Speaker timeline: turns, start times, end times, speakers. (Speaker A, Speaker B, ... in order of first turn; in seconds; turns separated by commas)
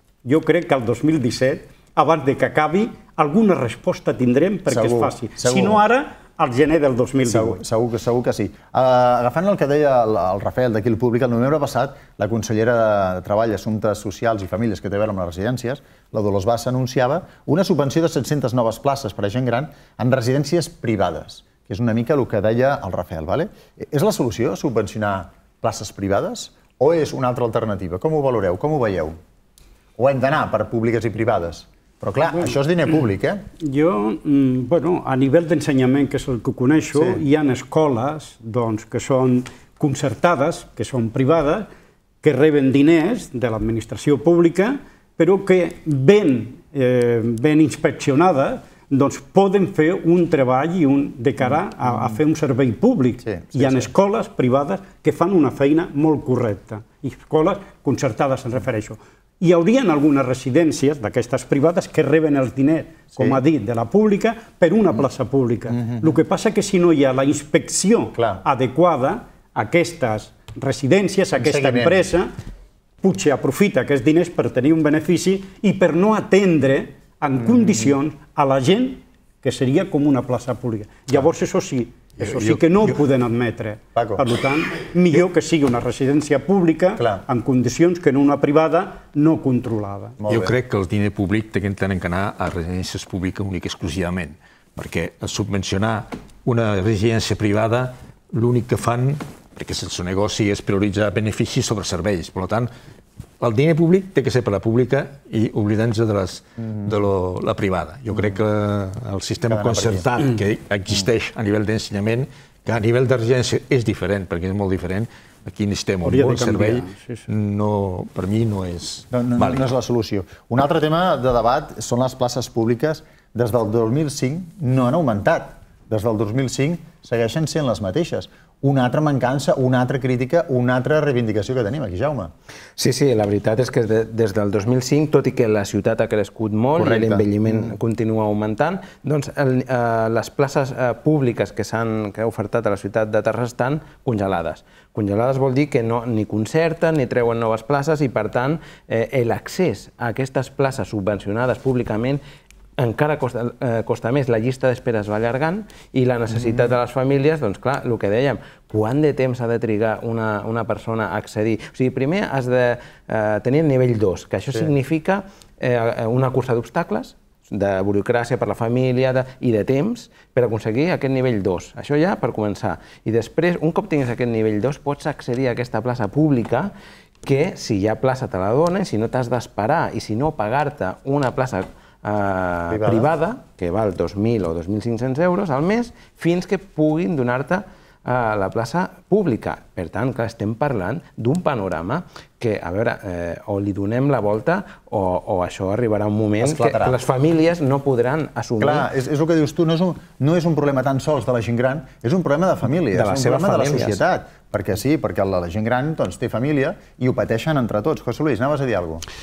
Speaker A: 0.2-7.6, Speaker B: 4.7-5.8, Speaker B: 7.2-29.2, Speaker B: 30.0-33.5, Speaker A: 33.6-41.7, Speaker B: 36.9-37.2, Speaker A: 42.2-72.3, Speaker B: 53.3-53.9, Speaker B: 65.7-66.1, Speaker B: 68.2-68.4, Speaker B: 71.4-72.0, Speaker A: 73.0-90.2, Speaker B: 77.4-77.9, Speaker B: 84.0-84.2, Speaker B: 87.0-87.2, Speaker B: 90.2-90.6, Speaker C: 90.3-102.7, Speaker C: 103.4-119.6, Speaker B: 106.6-106.9, Speaker B: 108.1-108.4, Speaker B: 109.5-110.1, Speaker A: 116.0-117.3, Speaker B: 119.1-132.3, Speaker D: 132.8-152.2, Speaker B: 136.8-137.7, Speaker D: 152.8-176.7, Speaker D: 177.2-198.9, Speaker B: 182.7-183.1, Speaker B: 196.4-197.0, Speaker B: 198.6-209.1, Speaker D: 202.9-204.0